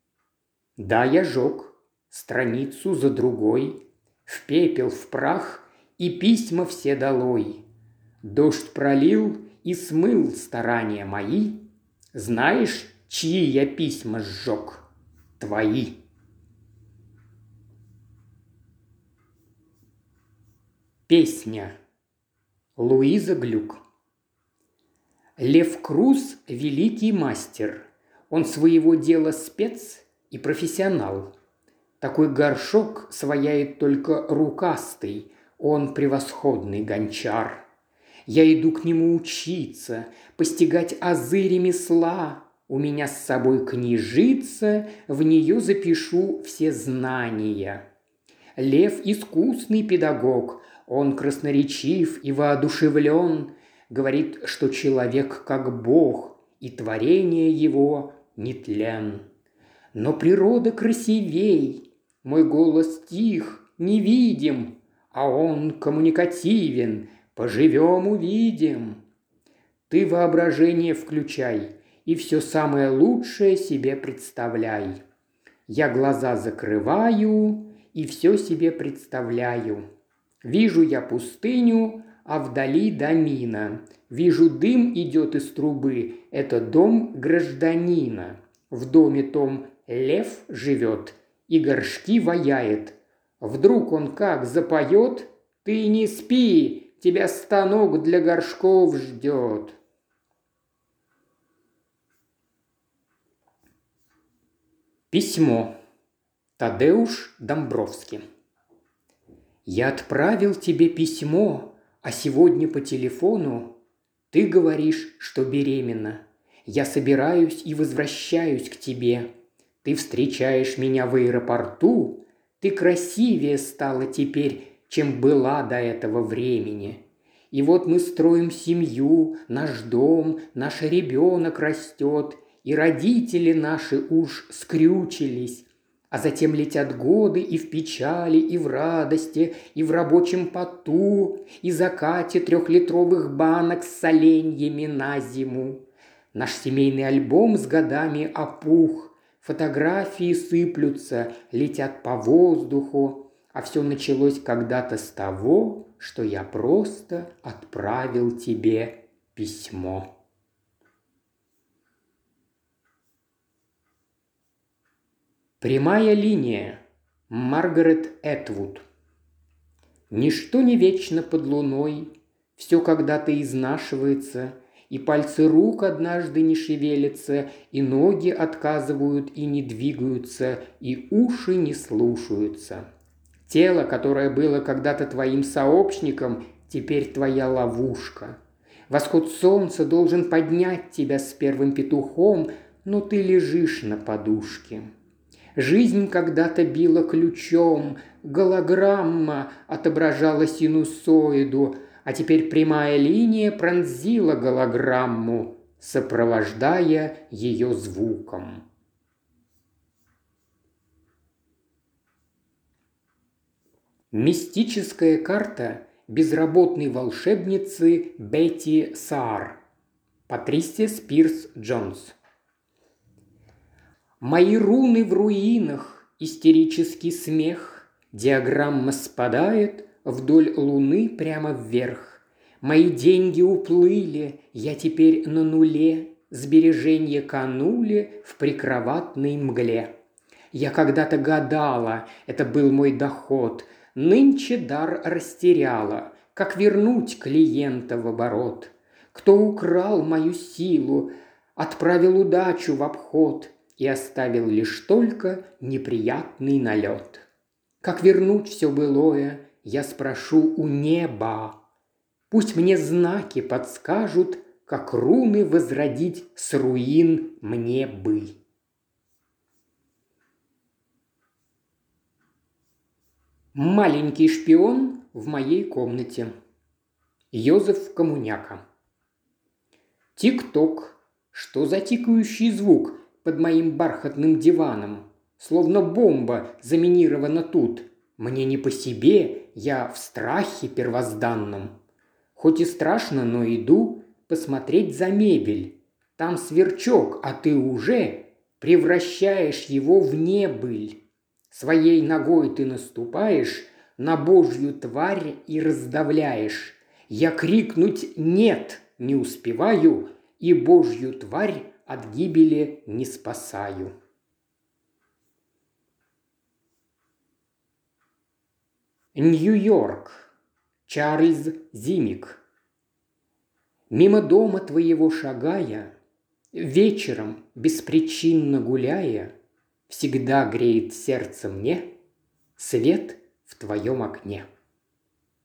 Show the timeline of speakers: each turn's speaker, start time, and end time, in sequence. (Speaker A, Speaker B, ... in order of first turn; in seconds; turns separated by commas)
Speaker A: 0.8-7.6, Speaker A: 8.2-14.9, Speaker A: 15.4-16.0, Speaker A: 21.1-21.7, Speaker A: 22.8-23.8, Speaker A: 25.4-31.3, Speaker A: 32.0-37.6, Speaker A: 38.2-47.8, Speaker A: 48.5-59.2, Speaker A: 59.9-69.0, Speaker A: 69.9-75.0, Speaker A: 75.7-79.8, Speaker A: 80.4-99.8, Speaker A: 105.1-105.7, Speaker A: 106.6-108.2, Speaker A: 109.6-113.8, Speaker A: 114.3-119.3, Speaker A: 119.8-160.1, Speaker A: 165.6-168.8, Speaker A: 170.1-182.8, Speaker A: 183.4-188.4, Speaker A: 188.9-194.9, Speaker A: 195.5-208.6, Speaker A: 214.1-219.6, Speaker A: 220.3-222.2, Speaker A: 224.2-239.9, Speaker A: 240.5-257.3, Speaker A: 257.8-261.6, Speaker A: 262.3-268.4, Speaker A: 273.5-276.3, Speaker A: 277.3-278.6, Speaker A: 280.1-291.7, Speaker A: 292.3-301.0, Speaker A: 301.5-313.9, Speaker A: 319.1-320.3, Speaker A: 320.9-322.4, Speaker A: 323.9-325.9, Speaker A: 326.5-329.3, Speaker A: 329.9-331.9, Speaker A: 332.6-334.5